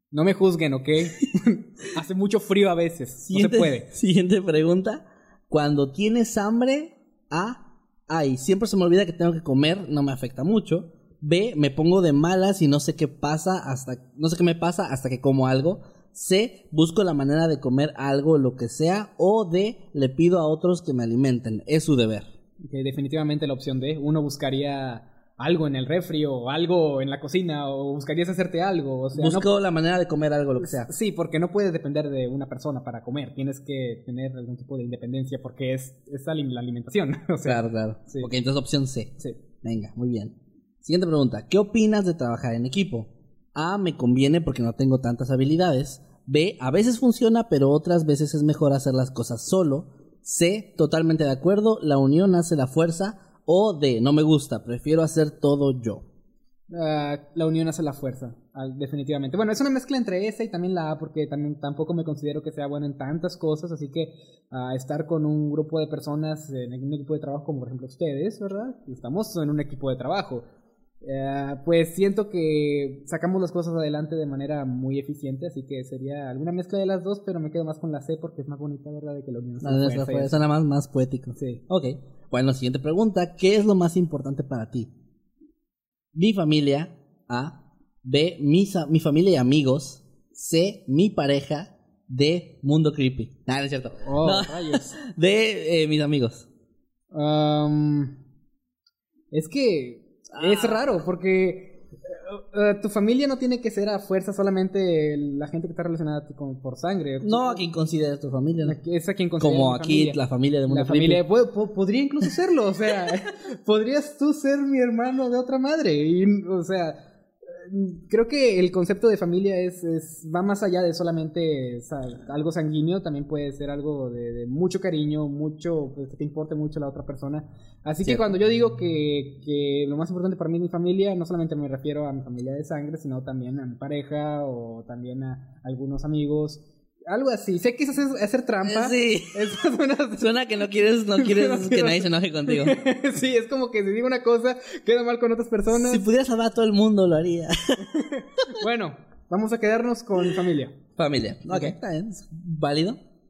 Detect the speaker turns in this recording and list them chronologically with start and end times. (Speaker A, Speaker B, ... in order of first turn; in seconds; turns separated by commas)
Speaker A: 0.1-3.9, Speaker B: 3.3-22.3, Speaker A: 22.7-29.5, Speaker B: 29.1-30.9, Speaker A: 30.6-38.3, Speaker B: 37.5-56.1, Speaker A: 56.7-70.5, Speaker A: 71.0-80.4, Speaker B: 79.6-84.9, Speaker A: 81.4-81.6, Speaker B: 86.1-96.5, Speaker A: 94.0-95.0, Speaker A: 97.1-98.2, Speaker A: 99.3-107.6, Speaker B: 100.3-100.8, Speaker B: 107.2-108.8, Speaker A: 108.6-140.4, Speaker B: 109.4-111.2, Speaker B: 138.6-139.4, Speaker B: 140.2-142.8, Speaker A: 141.1-146.1, Speaker B: 145.7-147.8, Speaker A: 147.9-150.8, Speaker B: 151.0-153.0, Speaker A: 151.5-151.8